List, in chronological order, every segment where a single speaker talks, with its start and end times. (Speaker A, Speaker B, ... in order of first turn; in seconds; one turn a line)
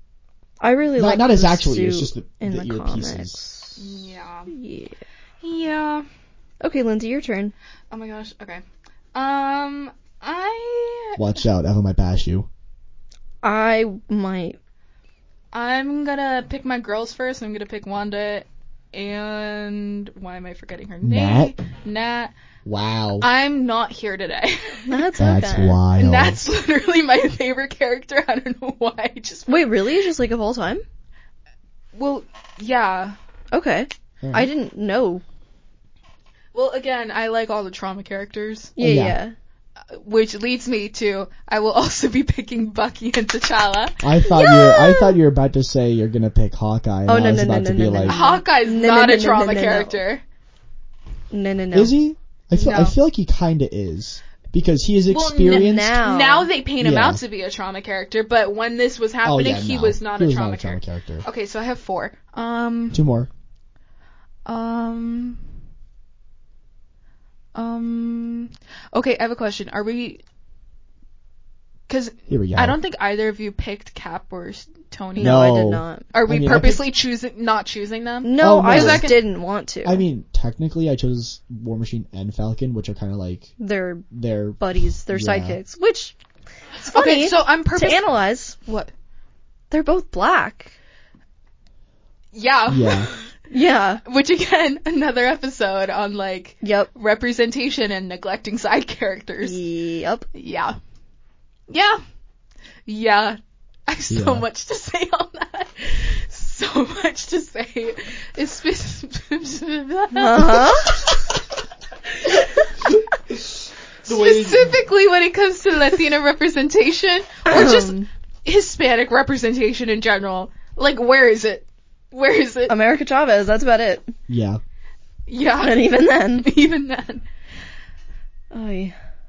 Speaker A: 0.6-3.8
Speaker B: 1.0-3.4
Speaker C: 3.8-4.5
Speaker A: 4.5-5.0
Speaker C: 5.4-6.0
Speaker A: 6.6-7.5
Speaker C: 7.9-8.6
Speaker C: 9.1-11.4
Speaker B: 11.2-12.5
Speaker A: 13.4-14.6
Speaker C: 15.5-22.3
Speaker B: 21.0-21.6
Speaker B: 22.6-23.3
Speaker C: 23.2-25.0
Speaker A: 24.9-25.8
Speaker B: 25.2-26.4
Speaker C: 26.0-29.7
Speaker A: 29.5-30.8
Speaker C: 31.9-33.2
Speaker A: 33.5-35.2
Speaker B: 34.2-34.5
Speaker C: 36.5-38.8
Speaker A: 38.8-39.3
Speaker B: 38.8-39.2
Speaker C: 39.9-44.0
Speaker B: 44.0-48.2
Speaker A: 44.2-45.2
Speaker A: 47.1-50.0
Speaker C: 48.1-50.2
Speaker A: 51.3-51.9
Speaker B: 51.7-56.0
Speaker C: 52.5-53.0
Speaker C: 55.1-63.0
Speaker A: 55.5-56.5
Speaker B: 56.8-57.2
Speaker B: 59.2-61.3
Speaker B: 62.9-63.3
Speaker C: 64.5-65.4
Speaker C: 67.5-70.2
Speaker C: 71.9-75.5
Speaker B: 72.3-72.8
Speaker A: 75.2-76.1
Speaker B: 75.2-76.9
Speaker C: 76.1-79.2
Speaker A: 78.2-80.0
Speaker B: 78.4-79.1
Speaker B: 79.8-83.5
Speaker A: 83.6-84.1
Speaker B: 84.1-85.6
Speaker A: 84.6-86.2
Speaker A: 86.8-88.6
Speaker C: 86.8-88.1
Speaker C: 88.6-88.9
Speaker A: 89.7-90.8
Speaker C: 92.3-93.3
Speaker B: 92.7-93.1
Speaker A: 93.5-94.0
Speaker C: 94.0-99.6
Speaker A: 96.6-96.9
Speaker A: 99.4-100.3
Speaker C: 100.3-100.8
Speaker C: 101.7-102.0
Speaker C: 102.9-111.2
Speaker B: 104.1-104.5
Speaker A: 110.1-111.0
Speaker C: 112.1-112.9
Speaker B: 113.3-114.8
Speaker C: 114.1-122.8
Speaker A: 117.5-118.1
Speaker A: 122.7-124.1
Speaker B: 124.3-124.6
Speaker C: 125.3-127.2
Speaker A: 125.6-126.5
Speaker A: 128.5-128.9